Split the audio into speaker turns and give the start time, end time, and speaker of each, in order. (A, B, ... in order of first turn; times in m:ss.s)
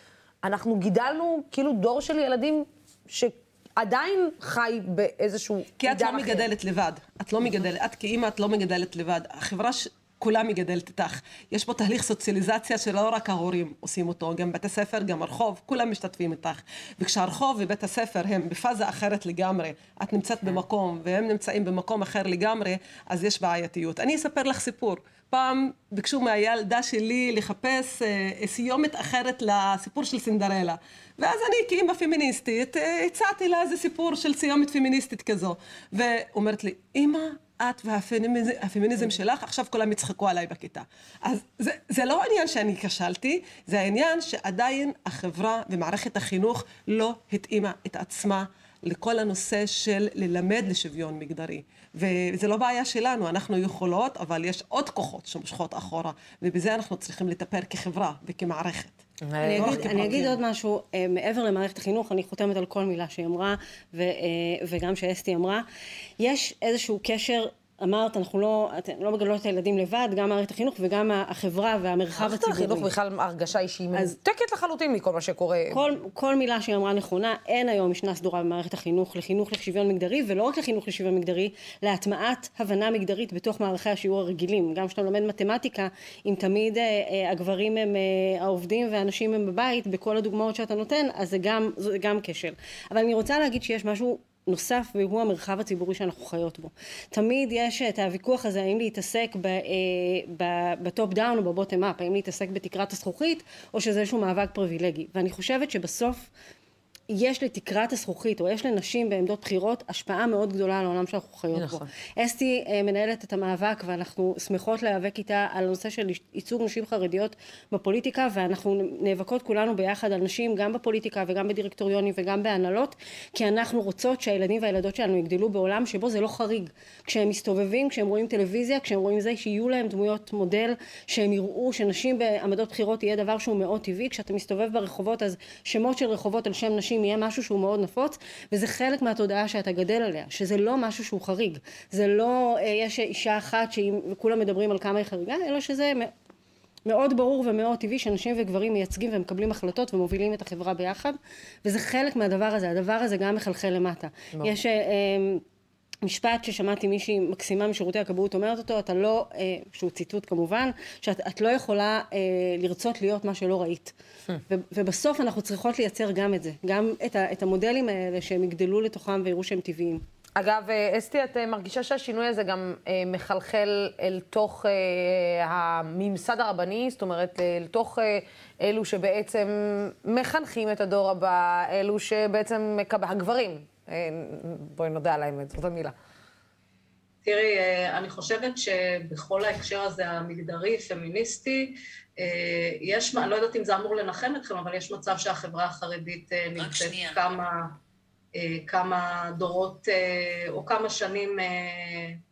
0:00.4-0:06.5 A
0:05.8-0:59.0 B
0:59.2-1:00.3 A
0:59.4-1:05.6 C
0:59.6-1:00.3 B
1:06.2-1:12.9 C
1:12.2-1:15.8 A
1:15.7-1:46.3 C
1:47.1-2:26.1 C
1:51.5-1:51.9 A
2:26.8-2:35.4 C
2:36.0-2:43.9 C
2:44.5-2:50.0 C
2:50.4-3:05.9 A
3:07.2-3:17.8 D
3:18.3-3:22.2 D